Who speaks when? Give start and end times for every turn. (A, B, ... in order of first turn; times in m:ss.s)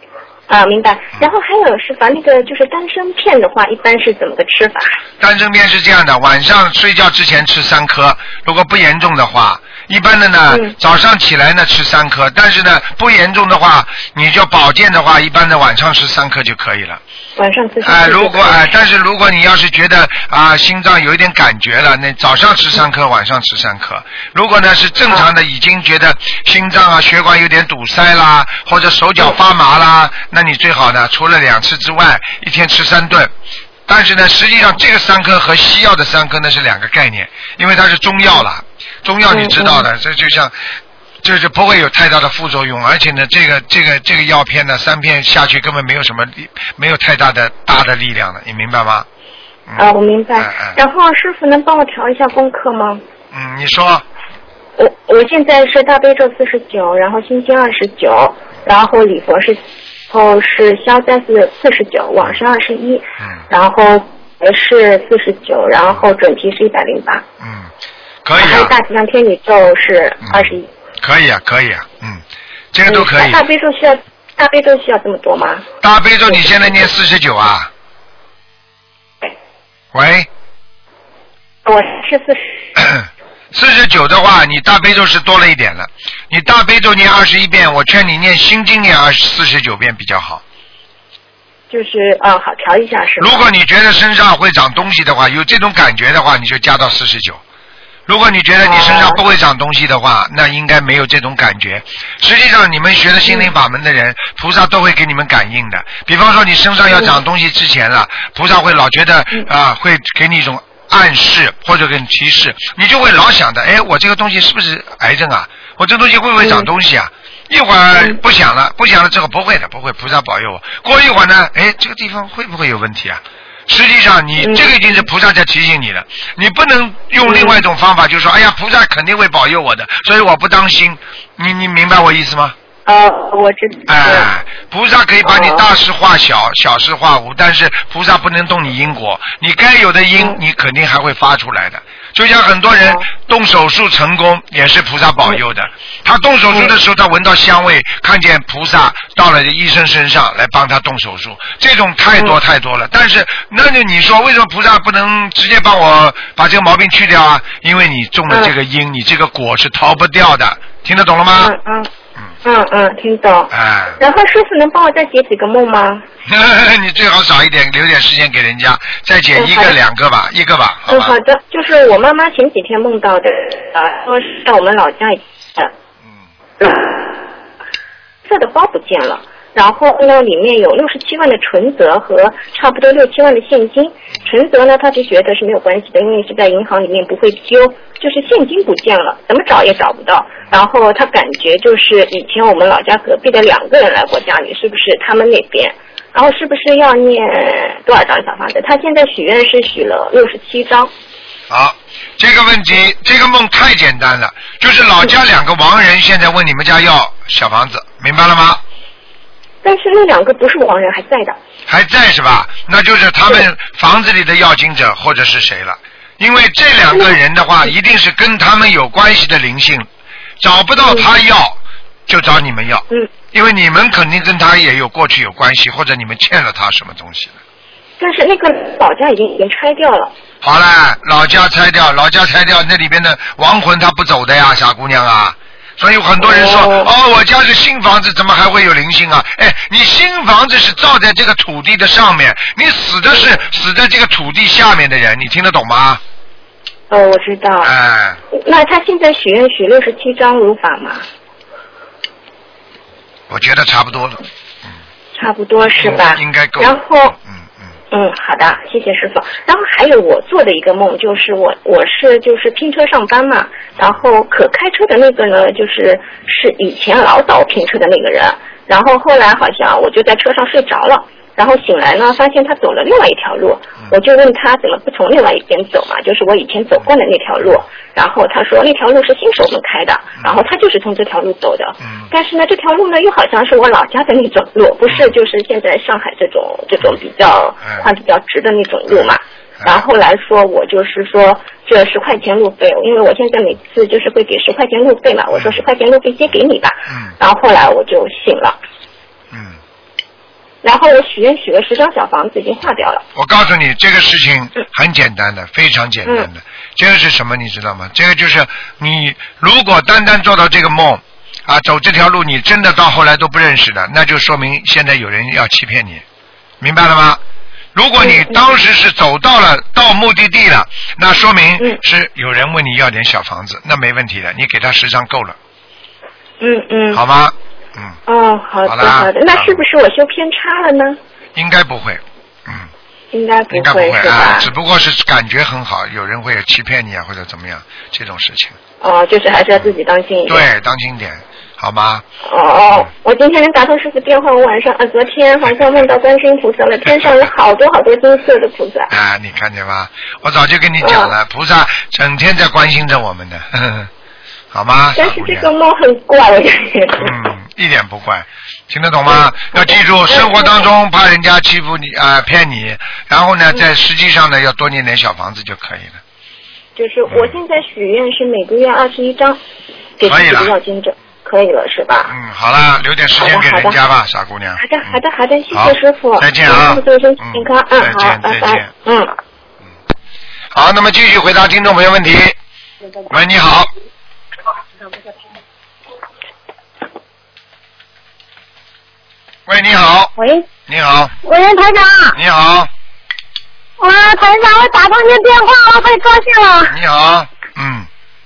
0:00.5-0:05.0 A
0:05.2-0:17.0 B
0:17.4-0:18.6 A
0:17.8-0:33.3 B
0:33.9-0:40.5 B
0:39.3-0:39.8 A
0:41.2-0:49.0 B
0:49.7-0:50.8 B
0:49.8-0:53.0 A
0:53.3-0:54.0 B
0:54.8-0:59.6 A
1:00.1-1:07.2 A
1:07.4-1:07.7 B
1:08.2-1:08.7 B
1:08.4-1:10.7 A
1:10.3-1:13.4 B
1:12.9-1:15.7 A
1:15.8-1:17.7 B
1:19.9-1:20.3 B
1:21.6-1:22.6 A
1:22.8-1:30.4 B
1:31.7-1:33.5 A
1:33.2-1:37.4 B
1:38.1-2:12.5 B
1:38.6-1:39.2 A
1:56.4-1:56.7 A
2:04.4-2:04.9 A
2:07.2-2:07.6 A
2:12.8-2:14.3 A
2:13.9-2:41.5 B
2:15.2-2:15.6 A
2:41.4-2:41.9 A
2:42.4-2:46.0 A
2:43.5-2:44.0 B
2:46.2-2:51.1 B
2:49.4-2:49.8 A
2:50.9-2:55.7 A
2:56.6-2:57.2 A
2:58.2-3:20.9 A
3:21.5-3:28.6 B
3:29.6-3:31.4 A
3:31.7-3:39.9 B
3:40.4-3:47.4 B
3:48.0-3:50.1 A
3:50.4-4:06.0 B
3:56.2-3:56.9 A
4:06.9-4:07.7 A
4:07.6-4:08.2 B
4:08.3-4:11.0 A
4:13.3-4:14.2 B
4:15.1-4:17.2 A
4:15.6-4:17.5 B
4:17.9-4:58.6 A
4:41.8-4:42.1 B
4:55.3-4:55.6 B
4:56.9-4:57.1 B
4:59.3-4:59.6 B
5:00.6-5:03.0 A
5:03.1-5:16.0 B
5:16.6-5:17.2 B
5:17.7-5:25.4 B
5:18.0-5:18.5 A
5:26.4-5:27.0 A
5:26.9-5:28.0 B
5:28.1-5:31.0 A
5:28.6-5:29.6 B
5:31.3-5:32.7 B
5:33.1-5:34.5 A
5:33.5-5:38.6 B
5:38.8-5:40.5 A
5:40.3-5:42.0 B
5:42.2-5:48.9 A
5:48.9-5:53.9 B
5:50.8-5:51.1 A
5:54.5-5:55.5 B
5:55.0-5:57.1 A
5:57.0-6:06.0 B
5:59.1-6:00.6 A
6:06.8-6:09.4 A
6:07.1-6:07.4 B
6:10.0-6:12.1 A
6:10.0-6:10.5 B
6:12.1-6:14.9 B
6:13.2-6:13.8 A
6:14.6-6:19.1 A
6:15.5-6:18.7 B
6:20.5-6:22.4 B
6:23.1-6:23.7 B
6:29.5-6:30.1 B
6:30.2-6:30.4 C
6:30.7-6:31.1 B
6:31.2-6:32.2 C
6:32.1-6:32.7 B
6:33.8-6:36.7 C
6:36.6-6:37.9 B